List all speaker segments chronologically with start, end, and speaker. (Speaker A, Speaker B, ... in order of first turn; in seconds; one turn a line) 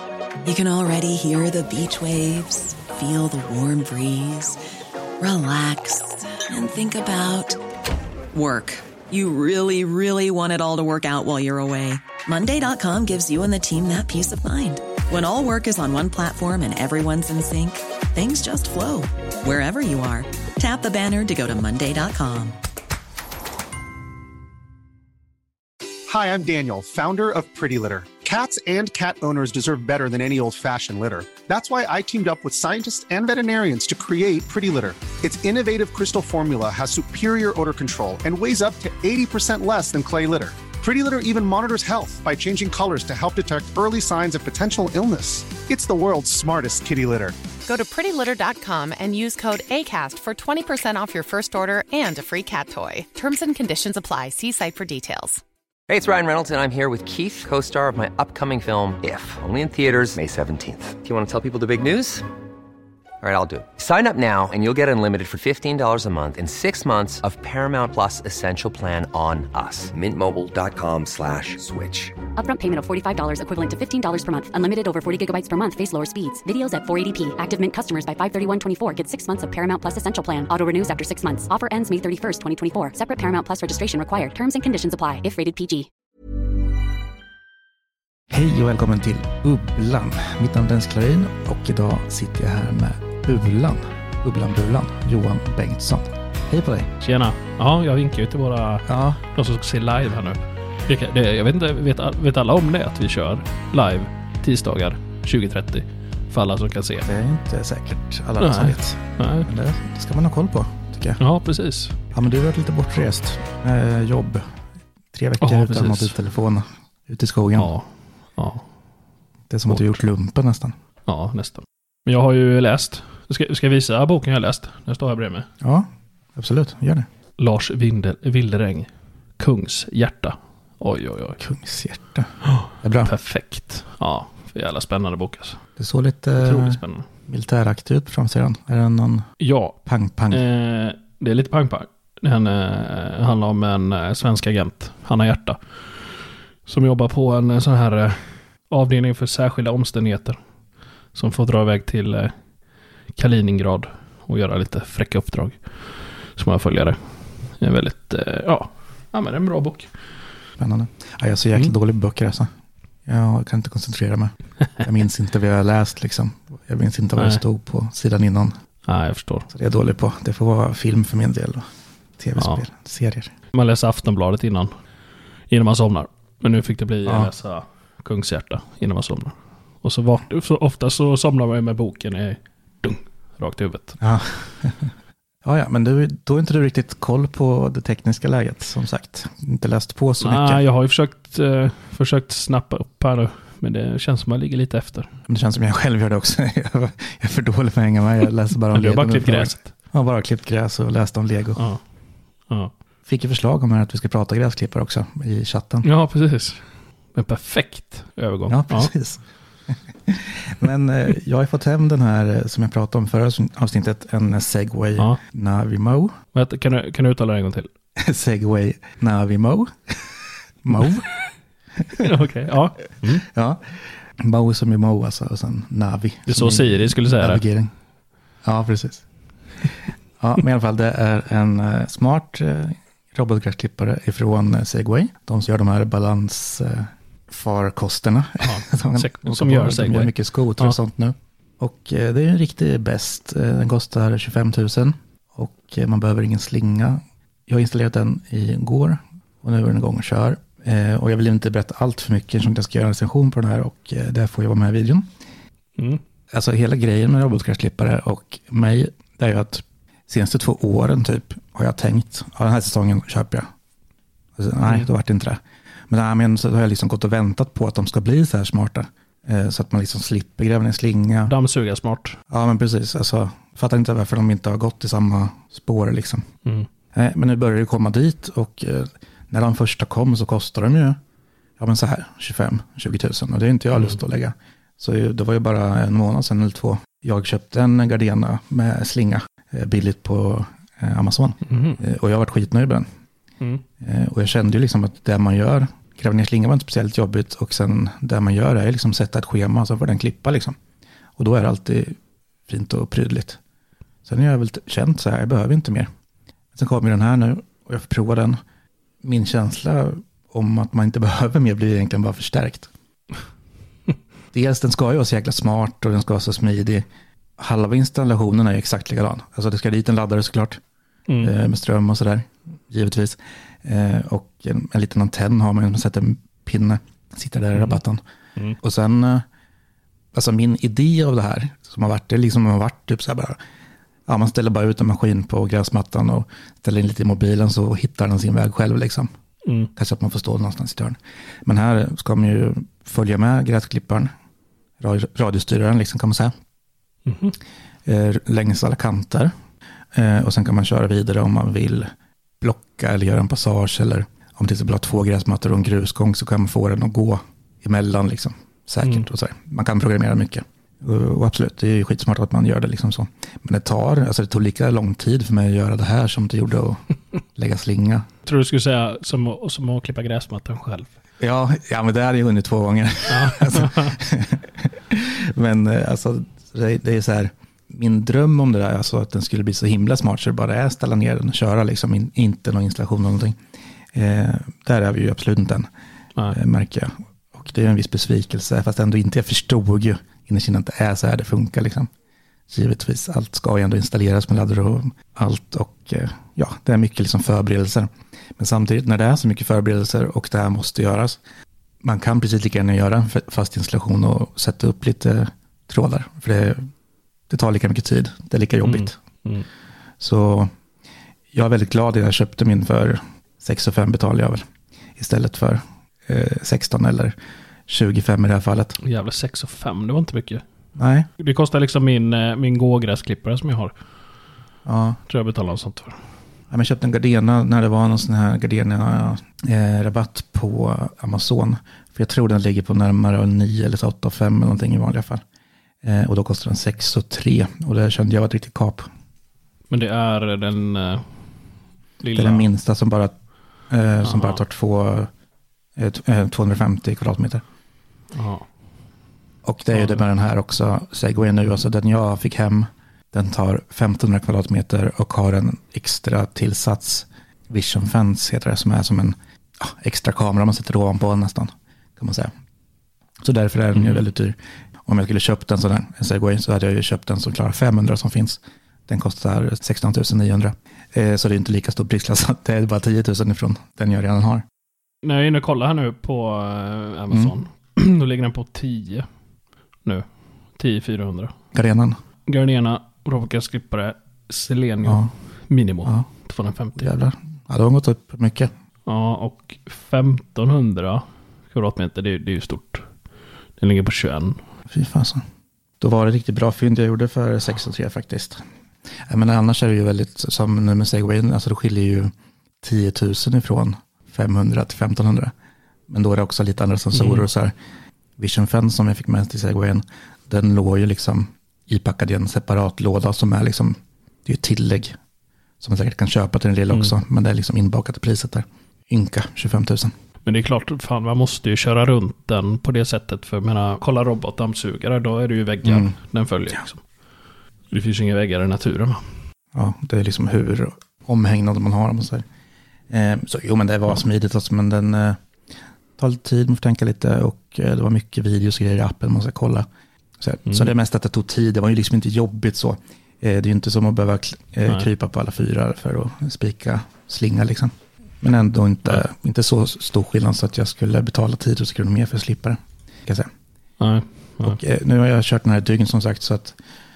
Speaker A: 0.4-4.6
Speaker A: 5.2-7.6
Speaker A: 8.3-22.6
Speaker B: 26.1-47.4
Speaker C: 47.7-55.4
Speaker D: 55.9-62.2
Speaker D: 63.2-72.2
Speaker E: 72.4-85.9
Speaker F: 88.3-96.9
Speaker G: 97.0-107.1
Speaker F: 98.9-99.2
Speaker F: 107.1-111.2
Speaker G: 108.4-109.5
Speaker G: 111.2-112.0
Speaker F: 112.1-114.5
Speaker F: 115.1-117.7
Speaker G: 115.4-116.2
Speaker G: 117.6-118.7
Speaker F: 119.5-120.8
Speaker G: 119.7-120.0
Speaker G: 121.1-125.5
Speaker F: 125.6-127.1
Speaker G: 127.4-131.4
Speaker F: 131.4-133.1
Speaker G: 133.0-135.6
Speaker F: 135.8-139.3
Speaker G: 136.4-137.1
Speaker G: 139.4-139.8
Speaker F: 139.8-140.5
Speaker G: 140.3-150.4
Speaker G: 151.1-152.3
Speaker G: 153.2-159.9
Speaker F: 160.6-162.5
Speaker F: 163.1-168.6
Speaker G: 167.2-167.4
Speaker G: 168.9-169.5
Speaker F: 169.5-171.7
Speaker F: 172.2-173.3
Speaker G: 172.4-172.6
Speaker G: 173.5-174.7
Speaker G: 175.5-184.0
Speaker F: 177.1-177.3
Speaker F: 184.0-184.9
Speaker F: 185.4-190.6
Speaker G: 190.2-195.1
Speaker F: 195.3-201.6
Speaker G: 198.7-199.7
Speaker F: 203.1-205.9
Speaker G: 205.8-208.9
Speaker F: 208.5-216.2
Speaker G: 216.3-217.7
Speaker F: 218.0-221.1
Speaker G: 222.0-223.2
Speaker F: 223.0-227.7
Speaker G: 226.3-227.4
Speaker F: 228.4-229.1
Speaker F: 230.2-255.1
Speaker G: 238.4-240.8
Speaker F: 256.3-263.5
Speaker F: 264.4-271.4
Speaker G: 271.3-272.2
Speaker F: 272.3-276.3
Speaker F: 276.9-281.0
Speaker F: 281.6-292.9
Speaker G: 291.5-291.8
Speaker F: 293.8-300.6
Speaker F: 301.2-303.4
Speaker F: 304.1-305.9
Speaker F: 306.5-308.4
Speaker F: 309.0-312.7
Speaker F: 314.3-316.9
Speaker F: 317.4-320.6
Speaker F: 321.2-328.0
Speaker G: 327.6-327.8
Speaker F: 328.6-329.3
Speaker F: 330.1-333.4
Speaker F: 334.1-339.1
Speaker G: 339.4-339.7
Speaker F: 339.7-344.1
Speaker F: 344.8-346.3
Speaker G: 347.1-347.4
Speaker F: 347.9-349.3
Speaker F: 349.9-366.8
Speaker F: 367.4-368.1
Speaker G: 368.3-370.9
Speaker F: 371.2-383.4
Speaker G: 373.1-374.0
Speaker F: 383.9-385.7
Speaker F: 386.3-391.9
Speaker F: 392.5-401.2
Speaker F: 401.8-406.7
Speaker F: 407.3-409.0
Speaker G: 408.6-409.5
Speaker F: 410.0-410.5
Speaker F: 411.3-414.4
Speaker F: 415.0-417.2
Speaker F: 417.7-418.8
Speaker G: 418.8-420.4
Speaker F: 420.8-421.1
Speaker G: 421.2-423.7
Speaker F: 424.6-425.0
Speaker G: 425.1-426.0
Speaker F: 426.5-435.2
Speaker F: 435.8-438.9
Speaker G: 439.7-441.1
Speaker G: 442.0-442.5
Speaker F: 442.1-445.1
Speaker G: 444.0-444.4
Speaker F: 445.8-447.4
Speaker G: 448.1-448.5
Speaker F: 449.4-462.3
Speaker G: 449.7-450.1
Speaker F: 463.2-474.4
Speaker G: 463.7-464.1
Speaker G: 475.0-479.1
Speaker F: 477.1-477.4
Speaker G: 479.9-481.3
Speaker F: 481.5-482.0
Speaker G: 482.3-486.9
Speaker F: 484.9-485.1
Speaker F: 486.8-488.5
Speaker G: 488.9-492.9
Speaker G: 493.6-494.4
Speaker F: 494.7-495.3
Speaker F: 495.8-498.4
Speaker F: 499.0-505.3
Speaker F: 505.9-507.5
Speaker G: 506.9-507.3
Speaker F: 508.2-515.0
Speaker F: 515.6-519.9
Speaker G: 520.2-526.8
Speaker F: 525.6-526.0
Speaker G: 527.7-529.1
Speaker F: 529.5-532.3
Speaker F: 532.9-535.2
Speaker F: 536.0-539.7
Speaker F: 540.2-553.3
Speaker G: 540.5-540.7
Speaker G: 553.8-554.6
Speaker F: 554.4-556.6